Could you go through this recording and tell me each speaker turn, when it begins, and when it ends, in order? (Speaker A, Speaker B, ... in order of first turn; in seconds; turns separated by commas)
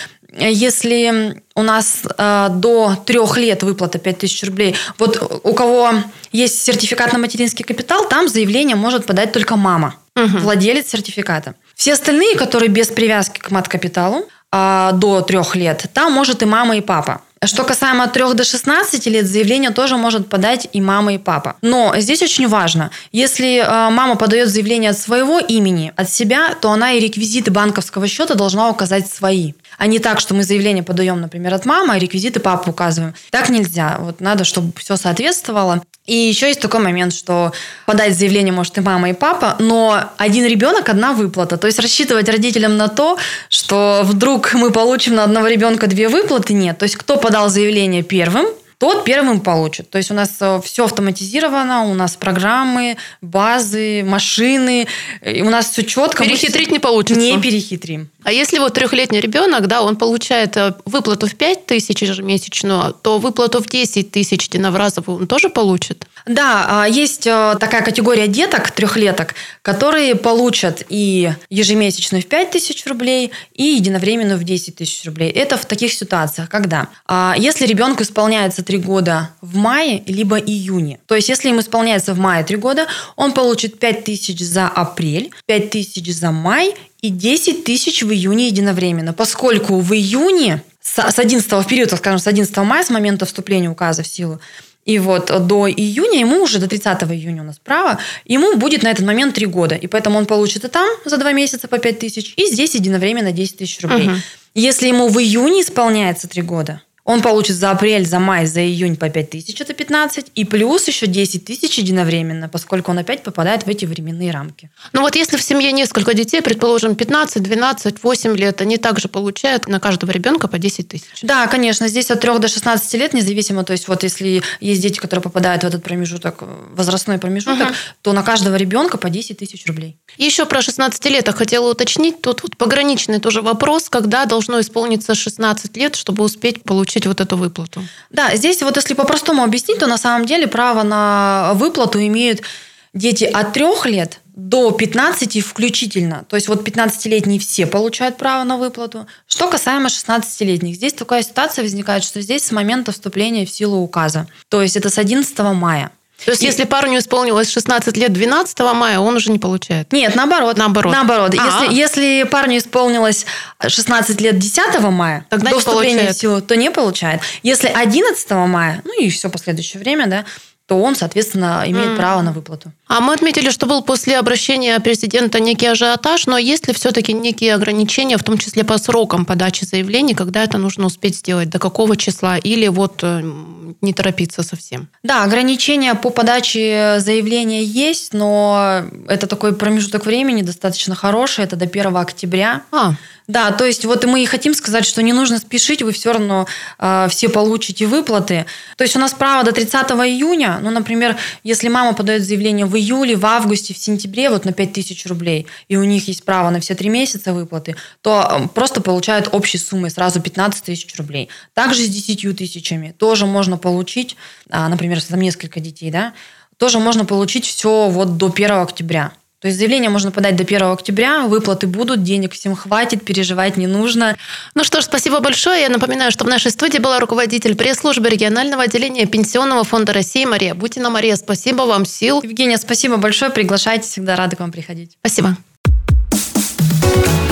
Speaker A: 0.3-58.1, Speaker B: 10.2-10.5, Speaker B: 56.2-57.5, Speaker B: 58.2-66.1, Speaker A: 66.3-114.7, Speaker B: 103.9-104.2, Speaker B: 114.9-121.2, Speaker A: 121.2-130.0, Speaker B: 127.5-127.8, Speaker B: 130.2-137.9, Speaker A: 138.1-156.6, Speaker B: 156.3-159.9, Speaker A: 159.9-172.7, Speaker B: 160.6-161.8, Speaker B: 165.3-166.2, Speaker B: 171.7-172.1, Speaker B: 172.9-184.9, Speaker A: 185.0-192.6, Speaker A: 193.3-224.2, Speaker B: 224.6-232.2, Speaker A: 232.2-234.9, Speaker B: 235.0-235.4